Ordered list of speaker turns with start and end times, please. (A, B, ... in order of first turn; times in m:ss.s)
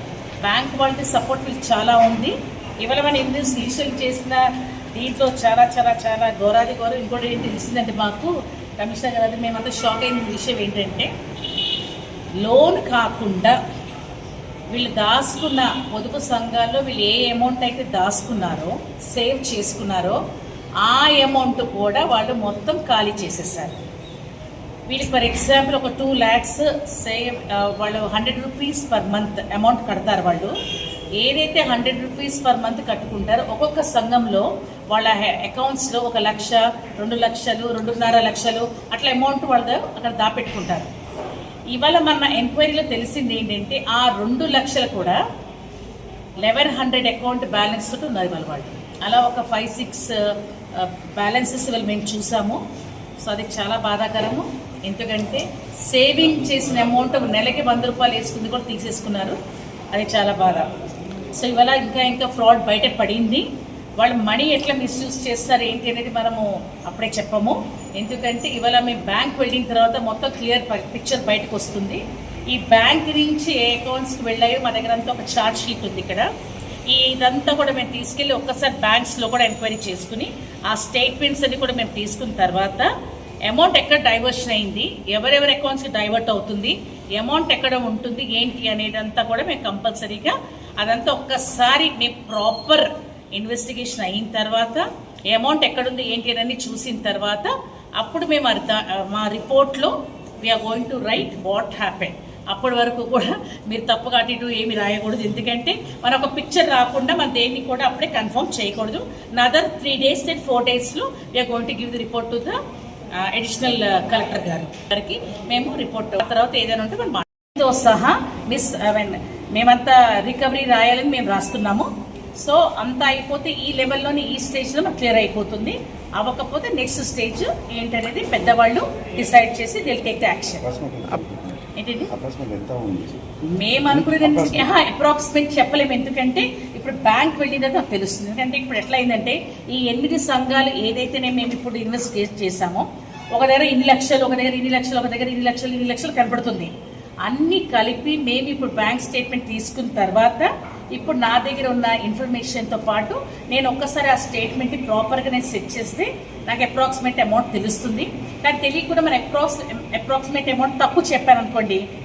0:00.4-0:11.1 A
0:12.4-0:13.6 A
0:14.7-0:20.2 A
0:20.8-0:23.8 A
0:24.9-0:30.6 A
0:31.2-0:40.9 A
0:41.7-0:45.2 A
0:46.4-0:52.6 A
0:53.2-0:59.4 A
0:59.9-1:00.7 A
1:01.3-1:03.5 A
1:04.0-1:16.3 A
1:16.9-1:22.9 A
1:23.5-1:52.6 A
1:53.2-2:10.6 A
2:10.7-2:11.6 B
2:11.8-2:12.1 A
2:12.2-2:13.2 B
2:13.6-2:26.7 A
2:13.9-2:14.6 B
2:27.2-2:41.8 A